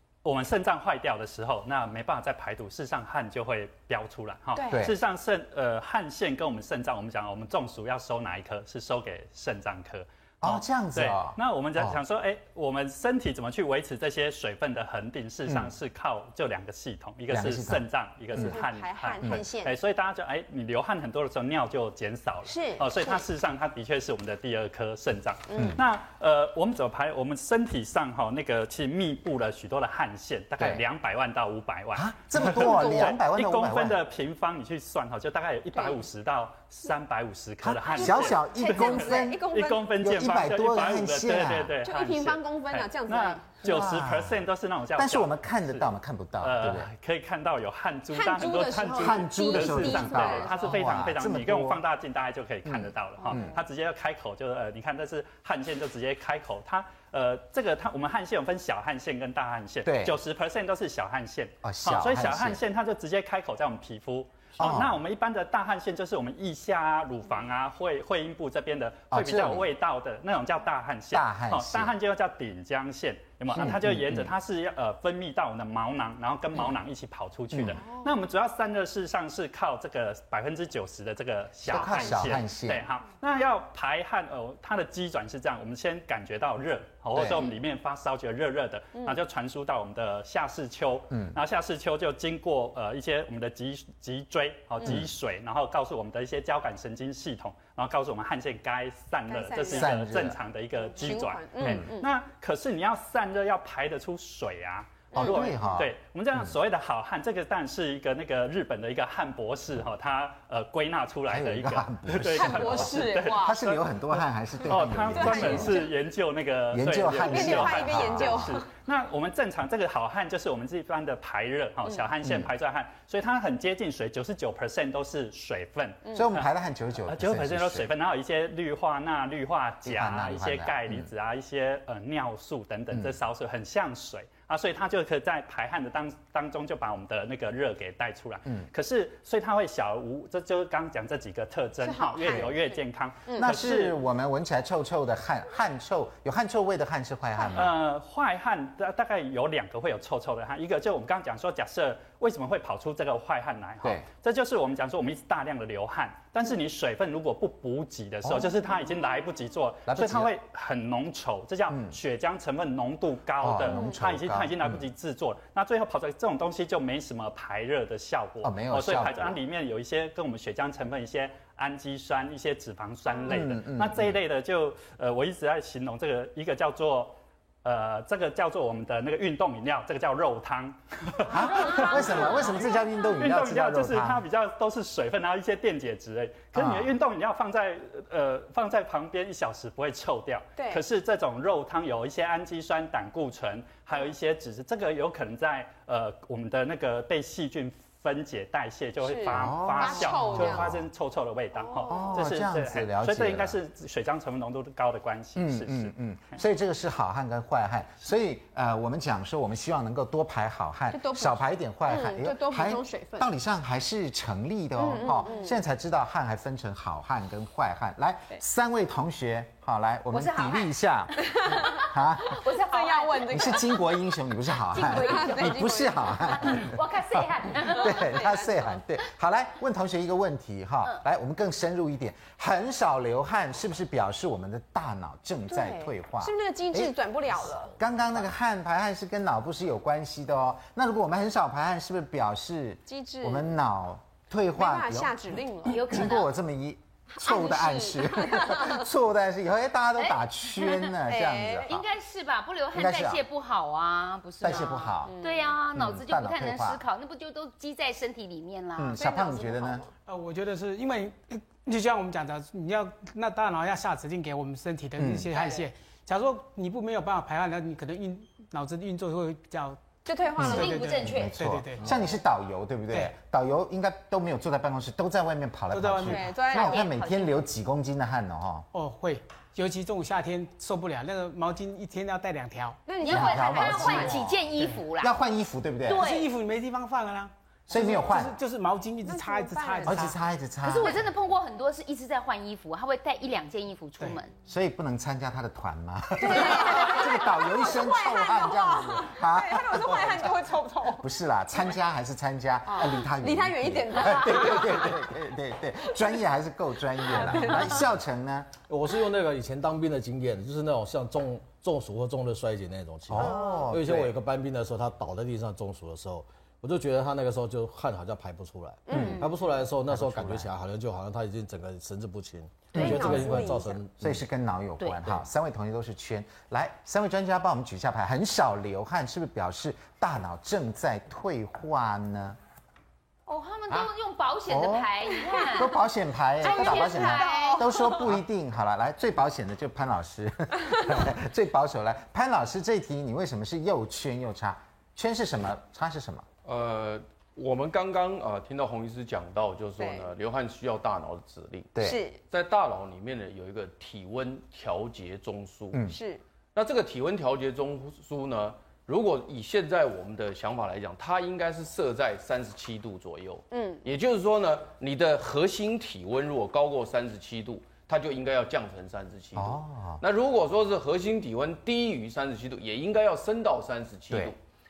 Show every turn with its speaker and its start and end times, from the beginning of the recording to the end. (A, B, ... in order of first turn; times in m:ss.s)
0:00.2-0:45.9 A
0:04.6-0:04.9 B
0:04.7-0:05.0 C
0:10.4-0:12.0 C
0:17.3-0:18.5 C
0:18.3-0:19.8 B
0:22.5-0:23.2 B
0:25.5-0:25.8 B
0:25.6-0:25.8 C
0:32.0-0:34.0 C
0:32.4-0:33.1 B
0:35.7-0:36.0 B
0:37.6-0:41.8 C
0:37.9-0:39.9 B
0:41.8-0:43.5 B
0:43.6-0:44.4 C
0:45.0-0:46.9 C
0:46.4-1:53.8 A
0:48.1-0:50.8 B
0:48.9-0:51.8 C
0:52.6-0:53.6 C
0:59.8-1:00.2 C
1:01.6-1:02.6 C
1:04.6-1:05.0 C
1:09.1-1:09.7 C
1:11.1-1:12.0 C
1:13.5-1:14.3 C
1:17.5-1:17.8 C
1:17.8-1:18.1 B
1:21.6-1:22.8 C
1:21.7-1:22.3 B
1:27.1-1:27.5 C
1:31.1-1:31.4 C
1:39.3-1:40.1 B
1:39.6-1:40.4 C
1:40.8-1:42.1 B
1:41.6-1:41.9 C
1:45.1-1:45.5 B
1:45.2-1:46.6 C
1:51.3-1:55.8 C
1:52.3-1:53.8 B
1:54.7-2:06.5 A
1:55.1-1:55.9 B
1:56.7-1:58.6 C
1:57.2-1:58.6 B
2:02.2-2:02.5 C
2:06.1-2:07.9 C
2:07.1-2:24.0 A
2:09.8-2:11.1 C
2:21.8-2:23.6 B
2:23.4-2:27.7 C
2:27.5-3:25.9 A
2:38.2-2:38.6 C
2:39.9-2:40.3 C
2:41.7-2:42.0 C
2:43.4-2:44.8 C
2:48.4-2:49.4 C
2:53.3-2:54.2 C
3:01.3-3:04.2 C
3:06.5-3:06.9 C
3:19.0-3:20.8 B
3:19.3-3:20.8 C
3:21.6-3:22.0 B
3:21.9-3:23.6 C
3:25.4-3:42.4 C
3:30.9-3:33.3 B
3:34.8-3:35.5 B
3:40.1-3:40.8 D
3:41.2-3:41.8 B
3:41.7-3:43.5 D
3:42.4-3:43.8 B
3:43.3-3:46.8 C
3:44.7-3:45.7 D
3:44.8-3:46.7 B
3:46.4-3:48.0 D
3:47.5-3:57.0 C
3:48.0-3:48.5 B
3:55.5-3:57.7 B
3:57.6-3:58.0 E
3:57.8-4:11.8 C
4:02.9-4:03.5 B
4:04.6-4:05.9 B
4:05.7-4:06.3 D
4:07.1-4:08.9 B
4:10.0-4:10.9 D
4:11.1-4:11.7 B
4:11.7-4:19.0 D
4:12.7-4:13.2 C
4:14.4-4:15.1 C
4:15.0-4:15.6 B
4:15.7-4:16.8 C
4:18.8-4:19.8 C
4:19.0-4:19.9 B
4:20.1-4:29.8 F
4:25.0-4:25.3 C
4:30.1-4:31.0 B
4:30.4-4:38.7 C
4:30.4-4:31.4 D
4:30.5-4:31.9 F
4:35.7-4:36.2 F
4:36.0-4:36.8 B
4:36.4-4:37.4 D
4:38.7-4:42.8 F
4:42.9-4:44.3 B
4:43.0-4:45.2 D
4:43.1-4:44.4 C
4:45.0-4:46.1 C
4:45.9-4:46.3 D
4:46.0-4:50.2 F
4:47.7-4:48.4 C
4:49.0-4:50.1 B
4:49.9-4:51.0 C
4:50.6-4:54.3 D
4:54.5-5:08.6 C
4:56.2-5:01.1 B
5:02.7-5:05.1 B
5:07.0-5:07.9 B
5:08.7-5:24.1 G
5:13.1-5:14.1 C
5:13.2-5:13.7 B
5:18.9-5:19.2 B
5:18.9-5:19.3 D
5:19.9-5:20.5 C
5:22.7-5:23.8 B
5:22.8-5:23.1 D
5:22.8-5:23.4 C
5:24.0-5:32.4 C
5:33.3-5:35.8 D
5:34.5-5:34.9 C
5:35.5-5:46.2 C
5:36.4-5:37.7 D
5:36.4-5:38.2 B
5:46.4-5:51.7 E
5:49.8-5:50.1 B
5:51.8-5:52.0 C
5:51.8-5:52.2 B
5:52.3-5:55.9 E
5:55.7-5:56.0 C
5:55.9-5:56.2 B
5:56.6-6:14.4 E
6:03.5-6:03.8 B
6:09.4-6:10.0 C